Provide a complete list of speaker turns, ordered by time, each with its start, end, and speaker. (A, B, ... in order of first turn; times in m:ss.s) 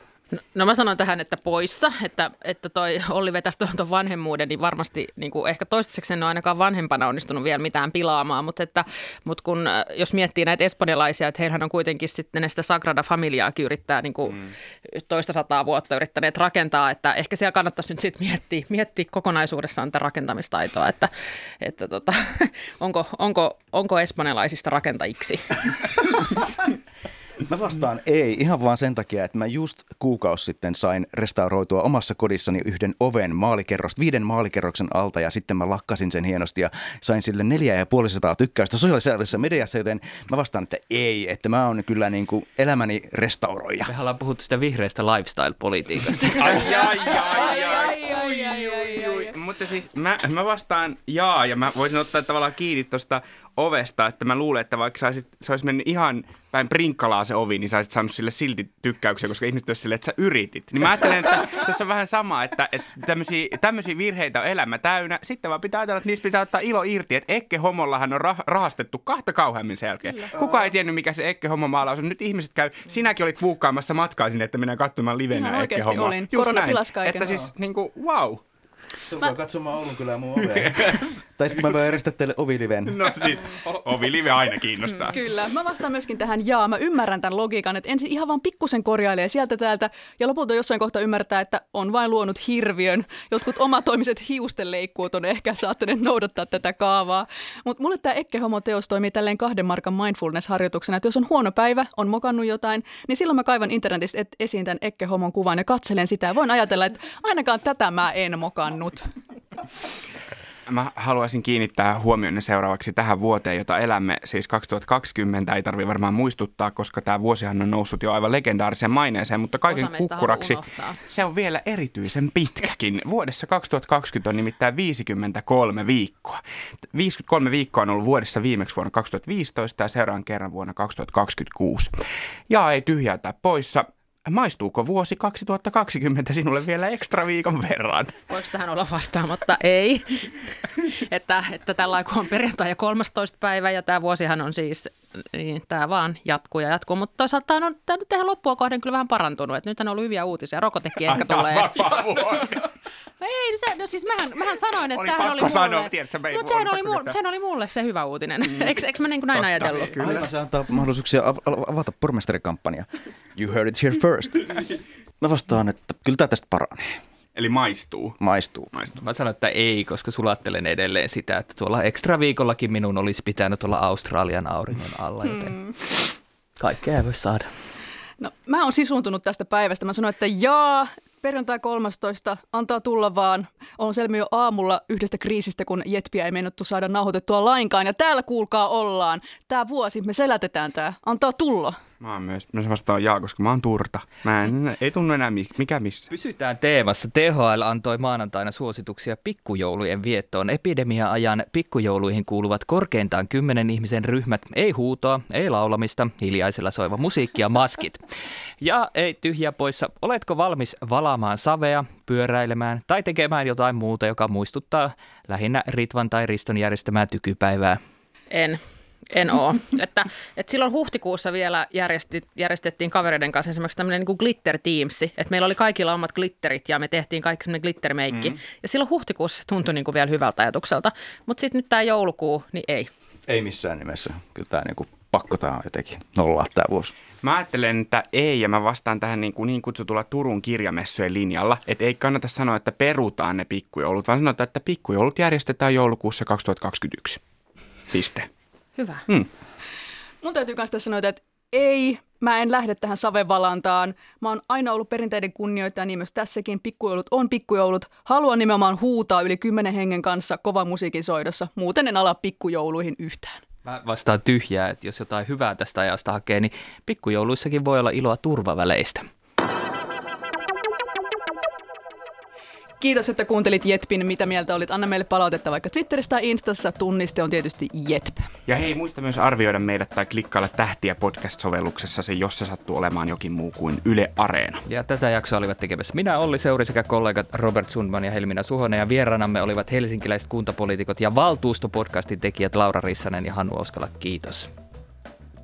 0:00.3-0:25.6 A
0:27.4-0:43.9 B
0:43.9-0:46.7 C
0:46.3-1:18.4 D
0:46.6-0:49.3 E
1:10.3-1:10.7 B
1:15.3-1:17.5 E
1:19.1-1:23.2 B
1:20.4-1:21.2 D
1:22.9-1:25.2 D
1:25.1-1:49.1 E
1:50.7-2:11.9 D
1:59.6-2:01.0 A
2:12.5-2:18.1 D
2:18.3-2:32.4 A
2:31.1-2:32.7 D
2:33.2-2:40.0 A
2:34.9-2:37.2 D
2:39.4-2:40.2 D
2:40.0-2:44.6 B
2:45.2-2:47.0 B
2:47.4-2:48.2 D
2:48.2-2:48.7 B
2:48.7-2:49.0 D
2:49.0-2:55.6 C
2:55.3-2:55.7 E
2:56.6-2:57.5 C
2:58.2-3:11.8 E
3:12.0-3:16.1 D
3:16.1-3:28.0 C
3:28.6-3:37.8 C
3:38.3-3:52.9 A
3:53.3-3:56.9 B
3:57.2-4:07.2 D
4:07.9-4:08.3 D
4:08.8-4:09.0 A
4:10.2-4:23.4 E
4:23.6-4:29.1 C
4:32.8-4:38.3 E
4:38.5-4:44.6 D
4:44.7-4:54.5 C